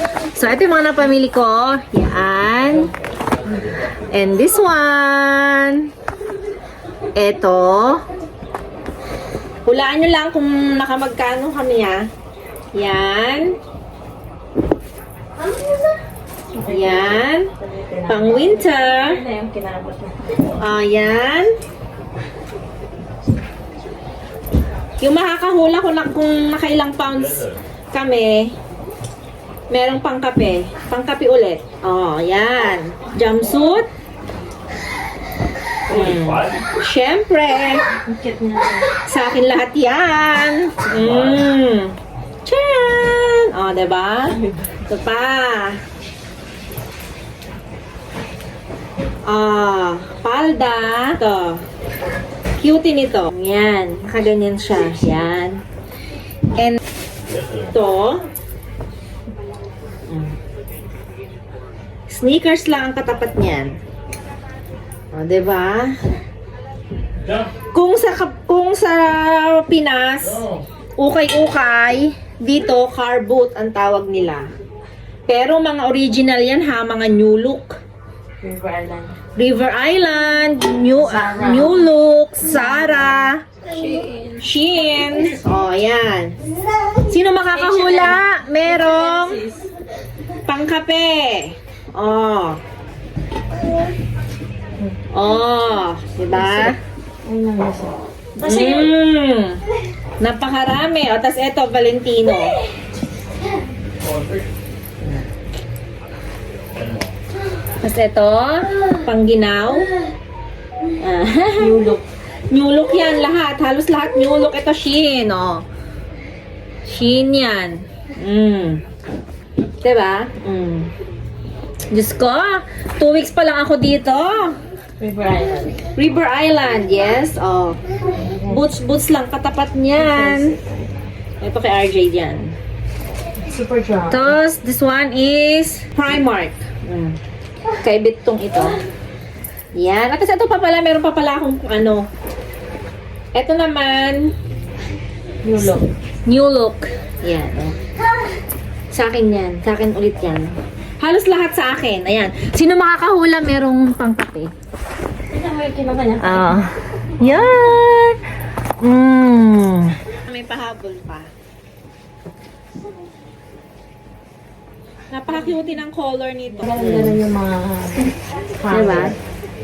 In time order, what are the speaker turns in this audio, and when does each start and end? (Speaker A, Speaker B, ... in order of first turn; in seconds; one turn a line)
Speaker A: 0.3-2.9
Speaker A: 4.1-5.9
Speaker A: 7.2-8.0
Speaker A: 9.7-12.1
Speaker A: 12.7-13.6
Speaker B: 15.5-15.9
Speaker B: 16.6-20.5
Speaker A: 16.7-17.5
Speaker A: 18.1-19.2
Speaker A: 20.6-21.5
Speaker A: 25.0-28.5
Speaker A: 29.7-33.9
Speaker A: 35.9-37.9
Speaker B: 37.9-39.0
Speaker A: 39.0-45.8
Speaker A: 49.3-51.6
Speaker A: 52.6-55.6
Speaker A: 56.6-56.8
Speaker A: 57.7-58.2
Speaker A: 62.1-63.7
Speaker A: 65.1-66.0
Speaker A: 67.7-74.5
Speaker A: 75.3-77.7
Speaker B: 78.4-79.2
Speaker A: 79.4-83.4
Speaker B: 81.0-81.9
Speaker B: 82.4-84.4
Speaker A: 84.4-86.4
Speaker A: 87.0-89.4
Speaker B: 87.5-89.7
Speaker A: 90.5-92.6
Speaker A: 95.1-96.8
Speaker B: 96.3-98.9
Speaker A: 98.4-99.6
Speaker A: 100.2-102.6
Speaker A: 107.8-109.9
Speaker A: 111.0-111.7
Speaker B: 111.6-112.0
Speaker A: 112.5-115.7
Speaker A: 116.9-118.8
Speaker A: 119.8-120.9
Speaker A: 121.9-124.6
Speaker B: 125.0-125.8
Speaker A: 126.0-127.8
Speaker B: 128.2-128.7
Speaker A: 128.4-130.5
Speaker B: 130.0-130.9
Speaker A: 131.4-132.6
Speaker B: 133.4-134.4
Speaker A: 134.1-137.2
Speaker A: 137.8-138.8
Speaker A: 139.8-142.1
Speaker A: 143.3-144.3
Speaker B: 145.4-145.9
Speaker A: 146.3-147.8
Speaker A: 148.9-154.5
Speaker B: 155.3-156.6
Speaker A: 156.2-158.2
Speaker B: 157.3-157.6
Speaker A: 158.8-161.3
Speaker A: 165.1-167.2
Speaker B: 166.6-169.2
Speaker A: 168.7-169.2